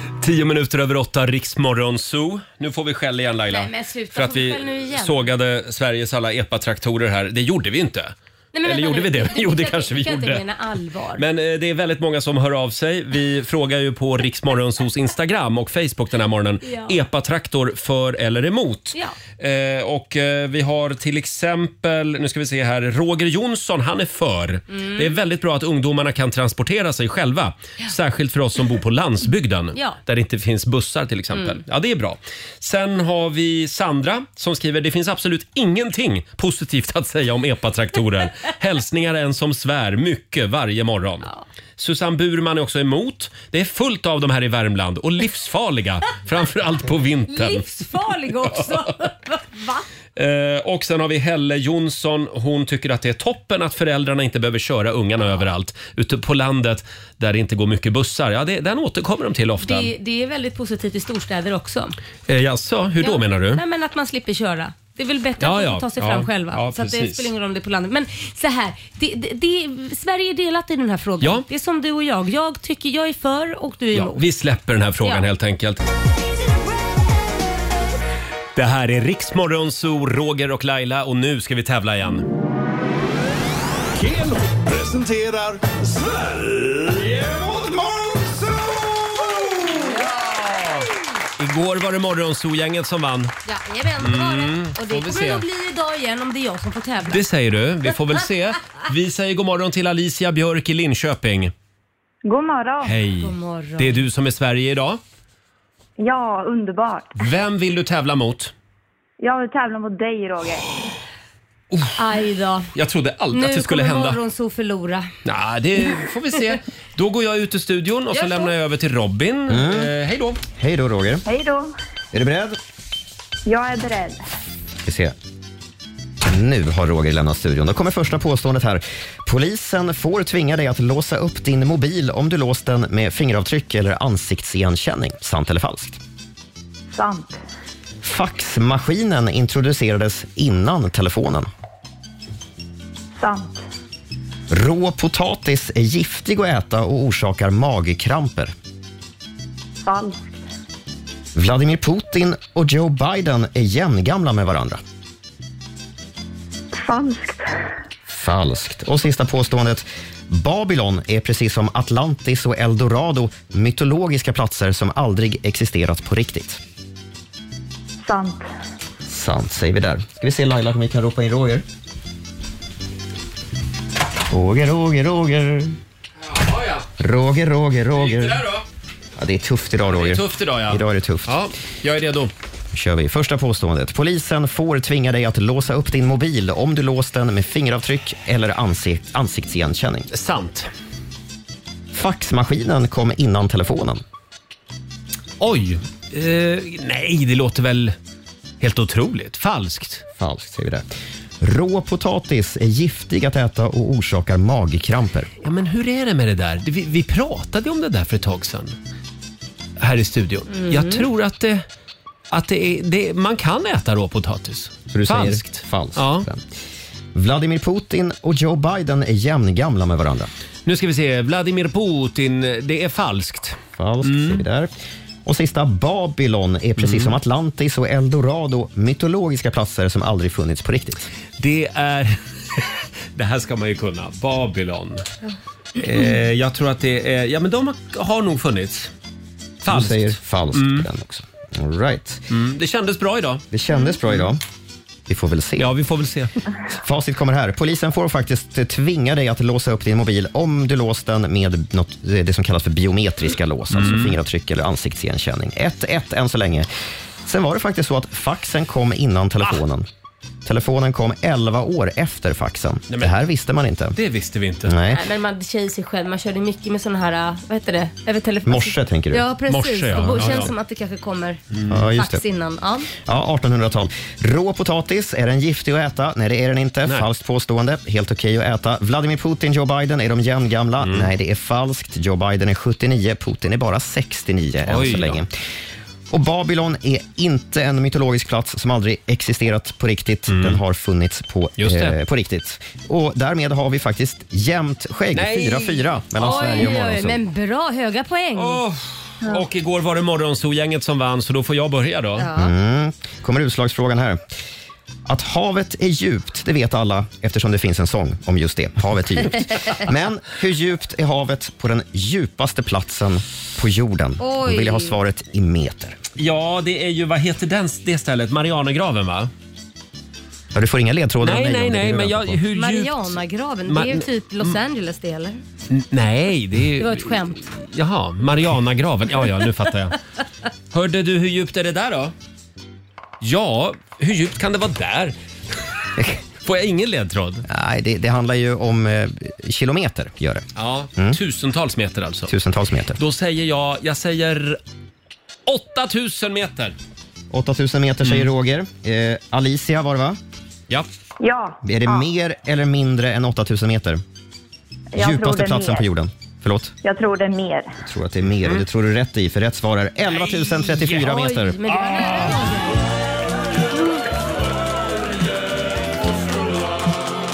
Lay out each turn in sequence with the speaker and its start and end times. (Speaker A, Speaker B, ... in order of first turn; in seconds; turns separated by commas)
Speaker A: 0.2-10.4, Speaker B: 3.5-5.3, Speaker B: 8.5-11.2, Speaker A: 11.2-47.7, Speaker B: 16.6-17.0, Speaker B: 24.7-25.1, Speaker B: 47.3-49.8, Speaker A: 48.4-48.9, Speaker A: 50.1-59.9, Speaker B: 59.6-61.9, Speaker A: 62.3-63.6, Speaker B: 63.0-74.2, Speaker A: 65.4-67.3, Speaker A: 73.9-75.8, Speaker A: 78.5-82.3, Speaker C: 83.9-90.8, Speaker A: 91.4-93.3, Speaker B: 93.5-97.2, Speaker A: 94.0-95.5, Speaker A: 97.1-101.5, Speaker D: 102.2-103.0, Speaker A: 102.8-105.0, Speaker B: 103.2-104.0, Speaker D: 106.0-107.2, Speaker A: 107.2-108.5, Speaker D: 109.2-110.6, Speaker A: 111.7-112.0, Speaker B: 112.0-112.7, Speaker A: 112.7-114.2, Speaker B: 113.3-115.1, Speaker A: 115.2-120.4, Speaker B: 118.1-118.5, Speaker E: 119.5-119.9, Speaker E: 120.6-121.2, Speaker D: 121.2-121.7, Speaker E: 122.1-122.6, Speaker D: 123.5-124.2, Speaker E: 124.8-125.1, Speaker E: 126.2-136.0, Speaker D: 136.9-137.4, Speaker E: 138.0-141.5, Speaker D: 143.2-143.6, Speaker E: 144.5-148.5, Speaker D: 149.8-150.4, Speaker E: 151.3-154.8, Speaker D: 156.7-157.7, Speaker E: 158.1-166.6, Speaker D: 168.0-168.4, Speaker E: 169.1-171.6, Speaker E: 174.3-175.8, Speaker A: 176.2-176.9, Speaker E: 177.0-178.4, Speaker A: 178.0-178.6, Speaker E: 179.2-181.4, Speaker A: 179.9-182.3, Speaker E: 182.7-190.1, Speaker A: 190.1-190.7, Speaker E: 191.9-194.0, Speaker A: 195.4-197.9, Speaker A: 198.6-200.0, Speaker E: 200.2-200.8, Speaker E: 201.4-205.3, Speaker A: 205.4-208.7, Speaker A: 209.8-211.6, Speaker B: 210.5-211.1, Speaker A: 212.3-216.3, Speaker E: 214.9-216.4, Speaker E: 217.1-220.3, Speaker A: 220.7-224.4, Speaker E: 223.8-224.7, Speaker E: 225.2-231.1, Speaker A: 226.8-227.1, Speaker A: 231.4-235.0, Speaker A: 235.8-238.9, Speaker A: 239.6-240.9, Speaker E: 239.6-242.2, Speaker A: 242.3-243.4, Speaker E: 243.5-244.4, Speaker E: 245.1-245.7, Speaker A: 245.6-246.3, Speaker E: 246.7-256.7, Speaker A: 253.7-254.1, Speaker E: 257.2-259.9, Speaker E: 260.4-263.9, Speaker A: 262.9-263.1, Speaker A: 263.9-264.8, Speaker E: 264.6-265.0, Speaker B: 264.9-271.4, Speaker E: 268.4-269.2, Speaker A: 269.5-270.5, Speaker A: 271.5-271.8, Speaker E: 271.7-272.2, Speaker B: 271.9-272.9, Speaker E: 273.1-285.3, Speaker A: 280.8-281.1, Speaker A: 284.6-285.2, Speaker E: 286.1-297.2, Speaker A: 290.3-290.6, Speaker A: 291.6-292.0, Speaker A: 295.1-296.7, Speaker B: 296.2-298.6, Speaker A: 298.4-302.3, Speaker B: 302.2-302.5, Speaker E: 302.3-304.2, Speaker E: 305.1-316.0, Speaker B: 314.2-314.9, Speaker A: 316.2-319.3, Speaker E: 320.5-322.4, Speaker A: 321.2-324.6, Speaker B: 322.5-325.4, Speaker A: 325.7-330.0, Speaker B: 326.8-327.4, Speaker A: 330.7-332.1, Speaker A: 333.2-335.1, Speaker A: 336.4-337.4, Speaker E: 337.5-341.2, Speaker A: 340.6-342.3, Speaker E: 342.3-343.0, Speaker A: 343.0-344.6, Speaker A: 345.5-346.7, Speaker E: 347.3-350.2, Speaker A: 348.0-348.3, Speaker D: 351.2-352.1, Speaker E: 351.6-354.0, Speaker D: 354.9-355.9, Speaker E: 355.0-356.7, Speaker D: 356.8-357.8, Speaker E: 357.8-361.6, Speaker A: 360.1-361.0, Speaker B: 360.9-362.8, Speaker A: 361.7-362.4